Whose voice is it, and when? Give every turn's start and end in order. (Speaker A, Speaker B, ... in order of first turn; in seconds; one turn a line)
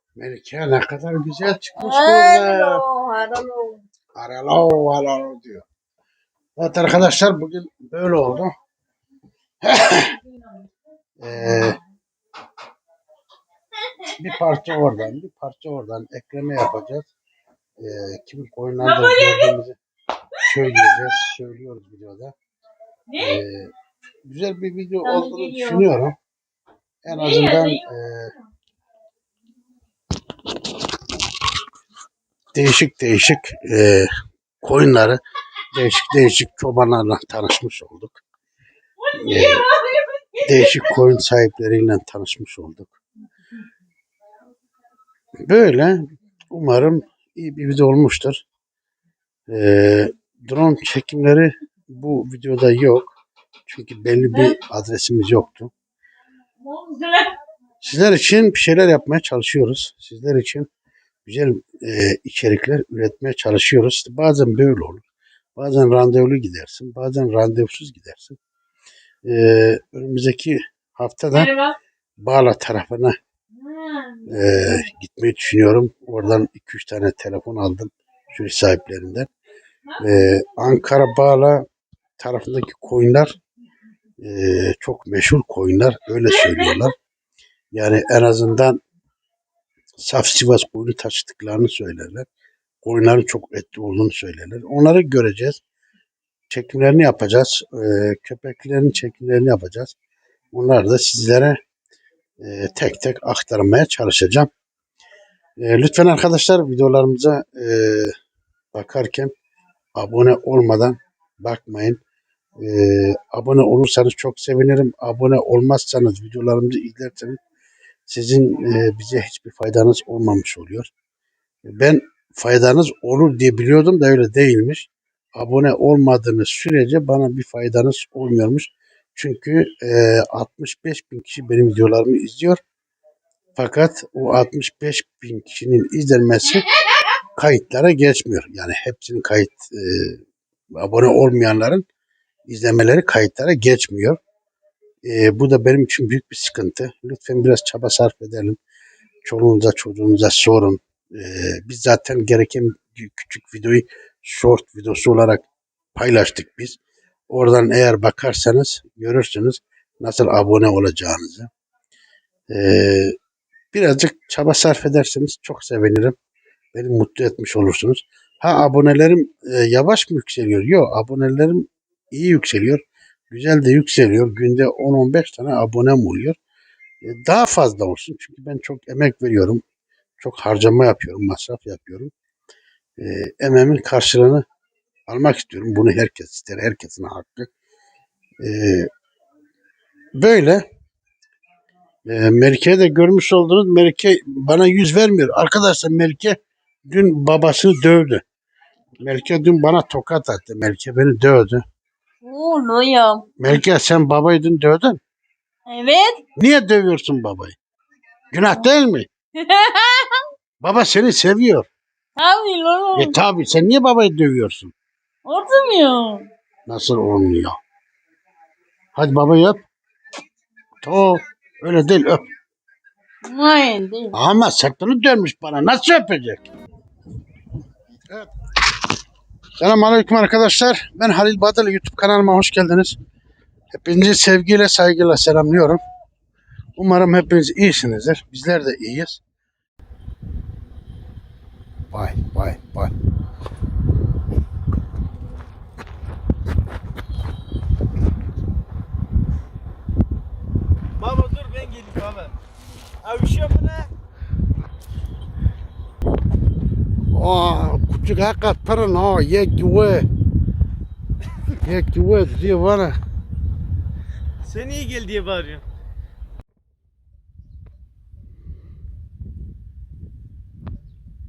Speaker A: 0.2-2.8
Speaker B: 1.8-3.8
Speaker A: 4.2-5.7
Speaker A: 6.6-8.5
Speaker A: 9.6-10.2
Speaker A: 11.2-11.8
Speaker A: 14.2-17.1
Speaker A: 17.8-19.8
Speaker B: 19.1-19.5
Speaker A: 20.4-22.3
Speaker A: 23.2-23.7
Speaker A: 24.3-26.1
Speaker B: 25.0-25.9
Speaker A: 27.0-28.3
Speaker B: 27.1-27.7
Speaker A: 32.5-34.1
Speaker A: 34.6-35.2
Speaker A: 35.7-38.2
Speaker A: 39.1-39.7
Speaker B: 39.5-40.2
Speaker A: 40.4-43.0
Speaker A: 45.5-46.0
Speaker A: 46.5-48.4
Speaker A: 49.5-53.1
Speaker A: 53.7-55.7
Speaker B: 56.6-57.4
Speaker A: 57.8-60.7
Speaker A: 61.3-65.0
Speaker A: 65.6-68.4
Speaker A: 69.3-71.5
Speaker B: 71.3-71.7
Speaker A: 72.2-73.1
Speaker B: 73.7-74.4
Speaker A: 74.3-79.3
Speaker A: 80.0-81.7
Speaker A: 82.2-83.4
Speaker A: 84.2-87.0
Speaker A: 87.7-88.8
Speaker A: 90.0-92.3
Speaker A: 92.8-95.6
Speaker A: 96.5-99.9
Speaker A: 100.5-101.6
Speaker A: 102.4-104.5
Speaker A: 105.6-108.1
Speaker A: 108.7-109.3
Speaker A: 110.0-112.0
Speaker A: 112.6-117.4
Speaker A: 118.1-120.9
Speaker A: 121.7-132.6
Speaker A: 133.6-136.7
Speaker A: 137.4-140.2
Speaker A: 140.8-141.8
Speaker A: 142.5-144.2
Speaker A: 145.1-148.6
Speaker A: 149.2-156.8
Speaker A: 157.3-161.5
Speaker A: 162.5-163.2
Speaker A: 163.7-166.2
Speaker A: 166.7-176.4
Speaker A: 177.0-179.6
Speaker A: 180.2-182.1
Speaker A: 183.0-184.4
Speaker A: 185.1-187.5
Speaker A: 188.4-188.9
Speaker A: 190.2-190.6
Speaker A: 192.1-196.4
Speaker A: 196.9-198.2
Speaker A: 199.0-201.6
Speaker B: 202.2-203.6
Speaker A: 203.4-205.0
Speaker B: 205.7-206.2
Speaker A: 206.4-207.6
Speaker A: 208.3-209.1
Speaker B: 209.4-210.2
Speaker A: 210.6-211.7
Speaker B: 212.2-213.2
Speaker A: 212.9-214.7
Speaker B: 215.2-216.3
Speaker A: 216.7-217.6
Speaker A: 218.9-219.6
Speaker A: 220.8-222.2
Speaker B: 223.2-224.2
Speaker A: 224.1-226.4
Speaker A: 229.6-233.0
Speaker A: 233.7-235.8
Speaker A: 236.8-239.2
Speaker A: 241.9-242.9
Speaker C: 251.0-252.3
Speaker C: 253.0-253.9
Speaker A: 257.1-260.1
Speaker A: 261.6-263.0
Speaker C: 264.5-265.6